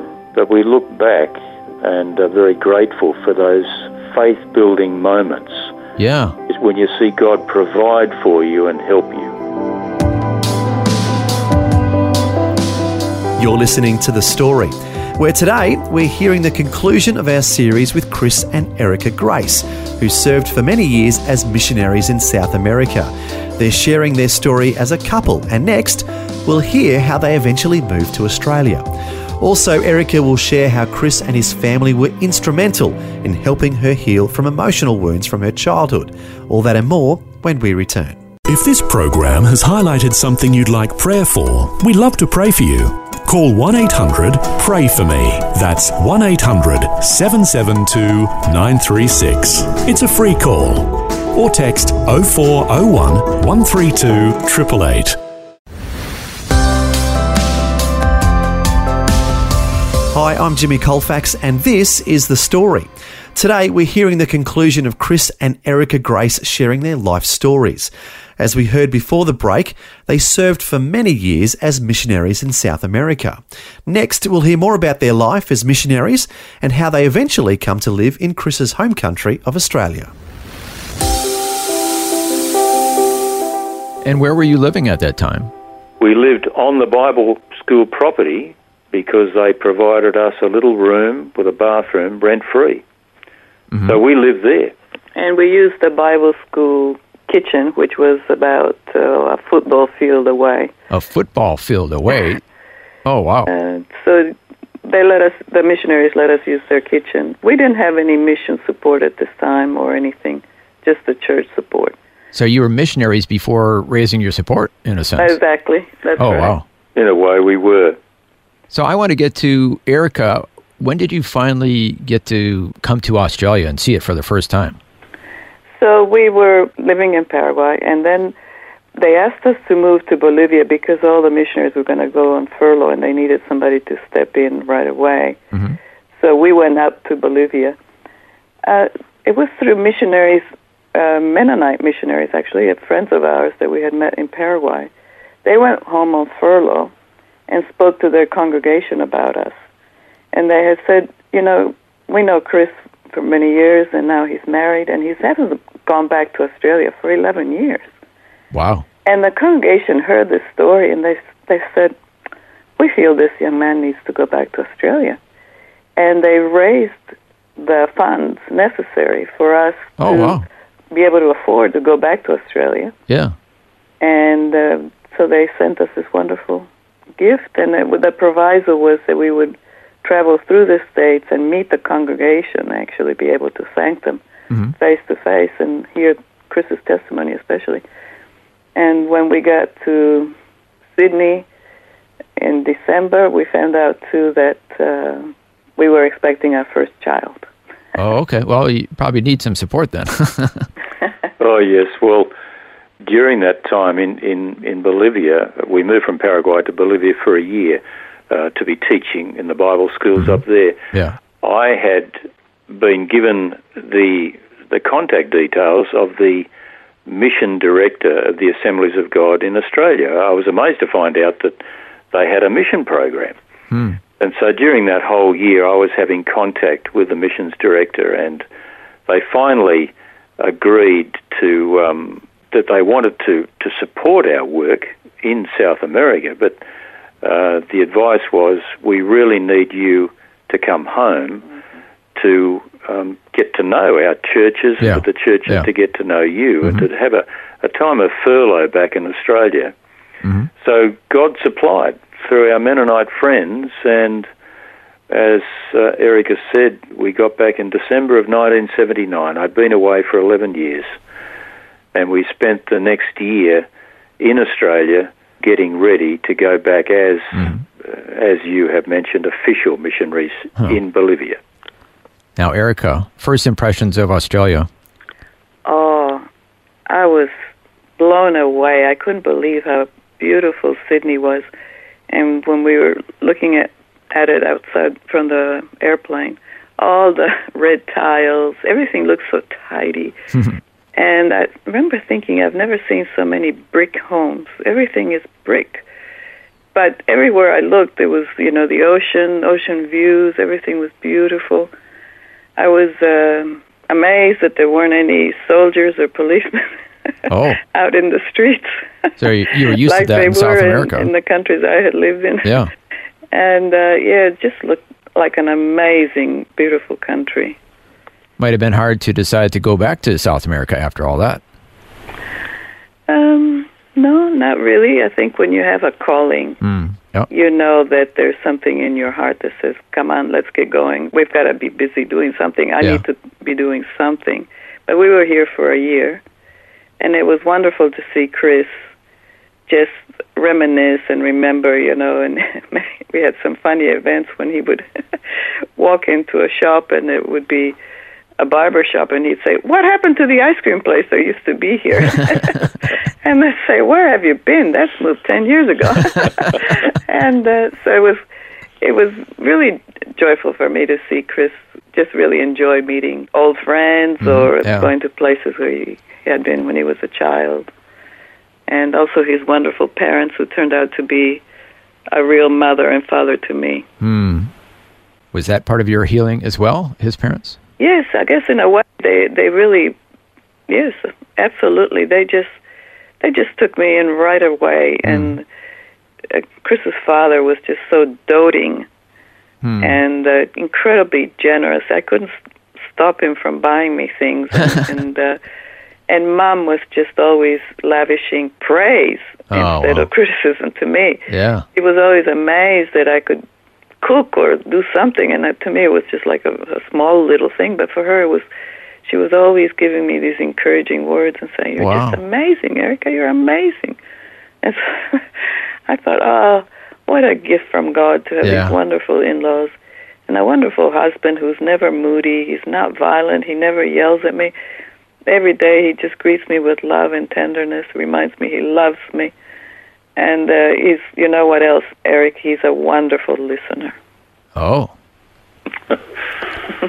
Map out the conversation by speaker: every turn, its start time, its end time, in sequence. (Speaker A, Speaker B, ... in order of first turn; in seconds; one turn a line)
Speaker A: 0.3-5.7
Speaker B: 6.0-6.4
Speaker A: 6.5-9.3
Speaker C: 13.4-28.9
Speaker C: 29.4-38.2
Speaker D: 38.5-55.2
Speaker C: 60.1-80.1
Speaker B: 84.0-85.5
Speaker A: 86.0-92.8
Speaker B: 93.7-94.0
Speaker A: 93.8-94.7
Speaker E: 95.2-100.7
Speaker B: 100.9-102.4
Speaker B: 103.0-103.5
Speaker E: 103.5-112.0
Speaker B: 112.3-115.4
Speaker E: 115.2-116.6
Speaker B: 116.2-116.7
Speaker A: 117.0-118.0
Speaker B: 118.7-124.8
Speaker E: 125.8-128.3
Speaker E: 129.0-135.4
Speaker B: 135.5-135.8
Speaker E: 136.2-137.8
Speaker E: 138.6-144.9
Speaker E: 145.4-146.9
Speaker E: 147.5-149.6
Speaker E: 150.3-157.9
Speaker B: 158.5-158.8
Speaker E: 159.1-161.9
Speaker E: 162.8-165.2
Speaker E: 166.0-172.9
Speaker B: 170.0-170.4
Speaker B: 173.1-173.3
Speaker E: 174.0-184.2
Speaker E: 184.8-187.8
Speaker E: 188.8-190.3
Speaker E: 190.9-191.5
Speaker E: 192.4-197.5
Speaker B: 197.9-200.7
Speaker A: 201.4-202.3
Speaker A: 203.0-210.8
Speaker B: 210.9-211.2
Speaker A: 211.4-212.2
Speaker A: 212.7-216.5
Speaker A: 217.1-221.6
Speaker A: 222.1-223.4
Speaker B: 223.7-224.0
Speaker A: 224.2-228.4
Speaker A: 229.1-236.6
Speaker A: 237.2-241.5
Speaker A: 242.2-249.7
Speaker B: 244.8-245.7
Speaker A: 250.6-254.3
Speaker A: 255.1-260.9
Speaker A: 261.9-263.7
Speaker A: 264.2-271.4
Speaker B: 267.4-267.6
Speaker B: 272.4-274.7
Speaker E: 275.6-276.2
Speaker E: 276.9-277.3
Speaker E: 278.0-281.5
Speaker E: 282.1-290.2
Speaker E: 290.9-295.8
Speaker E: 296.7-301.7
Speaker E: 302.6-306.7
Speaker E: 307.3-312.6
Speaker B: 307.3-307.6
Speaker B: 309.2-311.1
Speaker B: 312.4-312.7
Speaker E: 313.3-317.6
Speaker B: 318.4-321.4
Speaker E: 323.1-326.6
Speaker B: 326.6-327.3
Speaker E: 327.3-336.2
Speaker E: 337.0-338.8
Speaker E: 339.7-344.9
Speaker E: 345.8-347.8
Speaker E: 348.4-358.2
Speaker E: 358.8-367.7
Speaker B: 364.2-364.9
Speaker E: 368.7-371.4
Speaker E: 372.1-373.9
Speaker B: 374.0-374.5
Speaker B: 375.3-377.6
Speaker E: 377.8-380.0
Speaker E: 380.7-382.6
Speaker E: 383.2-385.5
Speaker B: 385.1-385.3
Speaker E: 386.3-388.9
Speaker B: 389.6-390.0
Speaker E: 389.8-392.3
Speaker E: 392.9-395.4
Speaker E: 396.1-401.2
Speaker B: 399.5-400.1
Speaker B: 401.3-401.7
Speaker E: 401.8-403.4
Speaker E: 404.0-408.4
Speaker E: 409.1-414.0
Speaker B: 411.8-412.2
Speaker E: 414.6-415.2
Speaker E: 415.9-419.7
Speaker B: 418.4-418.8
Speaker E: 420.3-424.5
Speaker E: 425.3-429.3
Speaker E: 430.2-434.0
Speaker B: 434.6-434.9